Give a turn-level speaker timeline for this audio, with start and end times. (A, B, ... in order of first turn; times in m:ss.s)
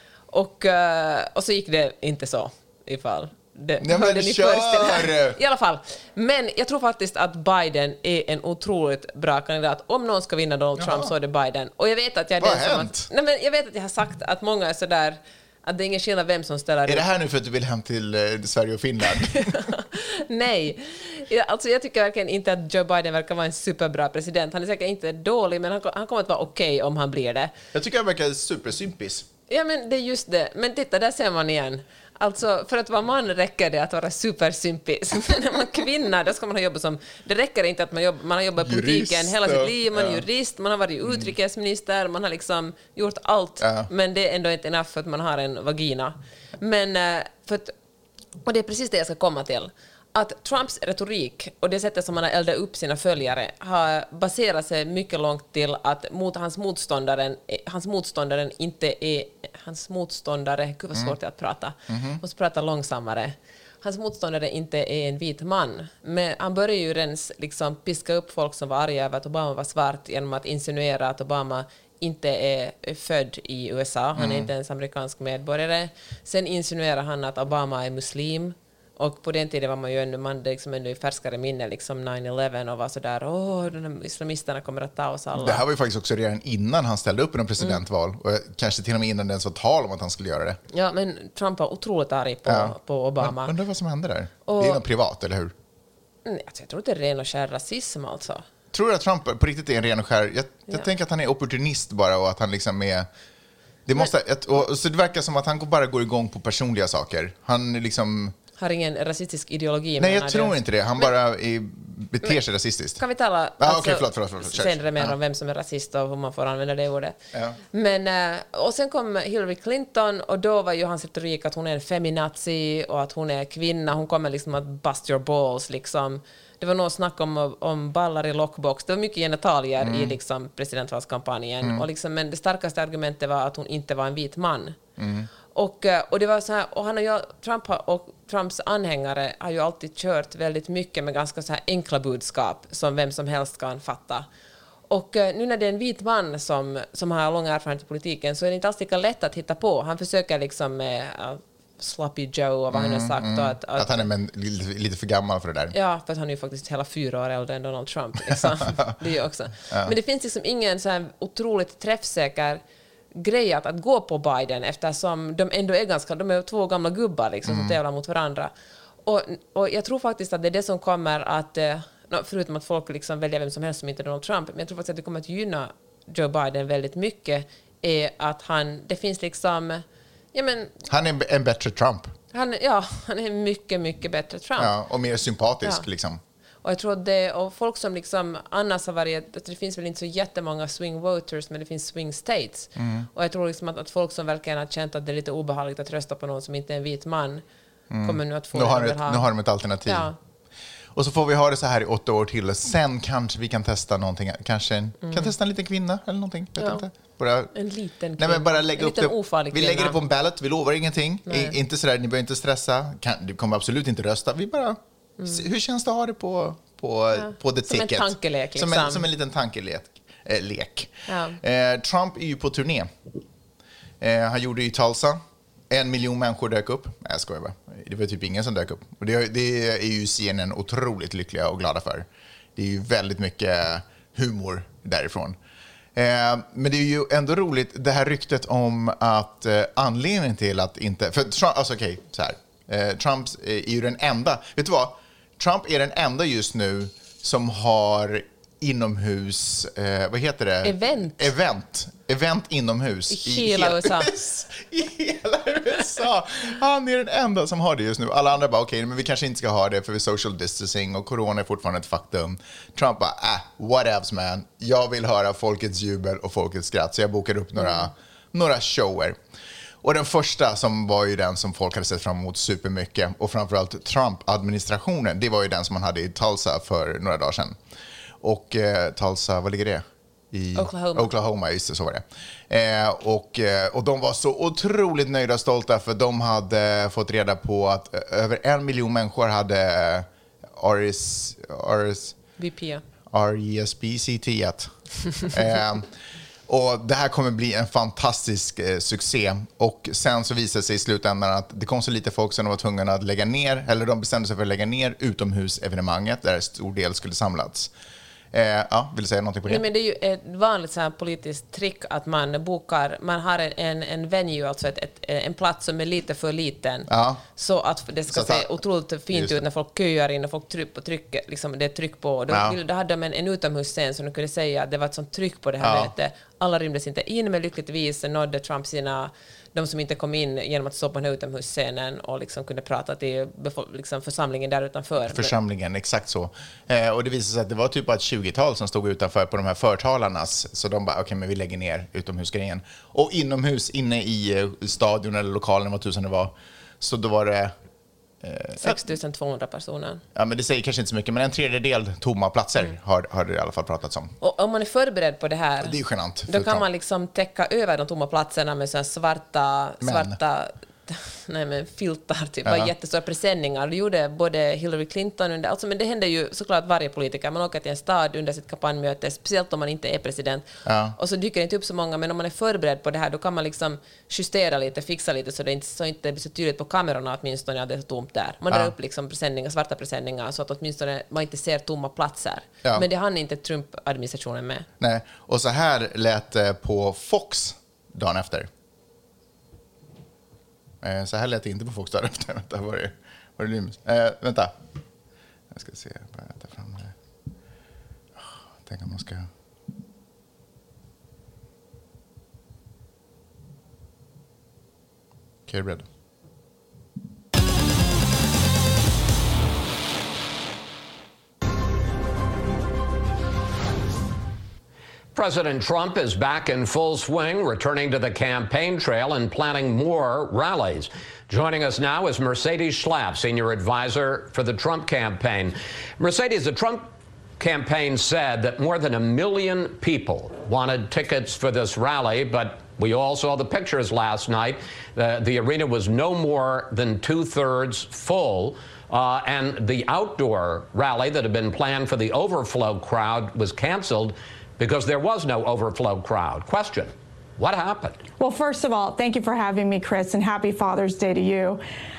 0:00.3-0:17.0 A
0:03.8-0:05.4 B
0:10.8-0:11.1 B
0:12.4-0:13.1 B
0:16.8-0:19.6 B
0:19.3-0:27.5 A
0:27.7-0:29.3 B
0:29.5-0:47.7 A
0:38.6-0:40.2 B
0:43.6-0:43.9 B
0:48.4-1:25.6 A
1:01.9-1:02.2 B
1:14.2-1:14.5 B
1:25.3-1:30.6 B
1:30.7-1:33.5 A
1:32.4-1:35.5 B
1:34.4-1:34.8 A
1:36.2-1:38.4 A
1:38.7-1:43.1 B
1:43.8-1:48.3 B
1:48.6-1:50.6 A
1:50.0-1:53.0 B
1:53.0-1:57.2 A
1:53.6-1:55.1 B
1:57.7-2:14.8 A
2:09.8-2:10.2 B
2:15.0-2:15.3 B
2:15.5-2:24.2 A
2:24.9-2:34.0 A
2:32.7-2:35.7 B
2:35.7-2:42.6 A
2:38.3-2:38.9 B
2:39.7-2:39.9 B
2:43.1-2:48.5 A
2:47.4-2:47.8 B
2:49.0-3:00.7 A
3:00.8-3:02.1 B
3:02.3-3:04.7 A
3:04.6-3:06.2 B
3:06.6-3:17.4 A
3:12.8-3:13.1 B
3:17.9-3:20.1 B
3:18.0-3:19.3 A
3:19.8-3:20.2 A
3:20.9-3:27.5 B
3:25.0-3:25.3 A
3:26.6-3:26.8 A
3:27.5-3:30.0 A
3:28.2-3:42.9 B
3:31.3-3:31.6 A
3:37.1-3:39.1 A
3:41.1-3:41.4 A
3:44.0-3:55.4 B
3:55.9-4:29.2 B
4:10.6-4:11.3 A
4:13.1-4:14.1 A
4:29.8-4:37.6 B
4:38.2-4:52.2 B
4:40.5-4:41.1 A
4:52.4-4:52.8 A
4:53.1-4:55.9 B
4:56.5-5:07.7 B
5:08.3-5:09.6 B
5:09.4-5:35.3 A
5:16.9-5:17.2 B
5:18.1-5:18.6 B
5:19.1-5:19.4 B
5:22.3-5:22.6 B
5:25.6-5:25.9 B
5:35.0-5:47.5 B
5:48.2-5:48.8 B
5:48.6-5:50.0 A
5:50.1-5:54.1 B
5:54.2-6:24.7 A
5:55.6-5:56.6 B
5:59.8-6:00.2 B
6:02.4-6:02.7 B
6:10.6-6:10.9 B
6:24.8-6:28.5 B
6:30.8-6:34.5 B
6:35.5-6:36.9 B
6:38.2-6:39.3 B
6:45.5-6:45.8 B
6:55.1-7:28.0 C
7:28.2-7:31.6 D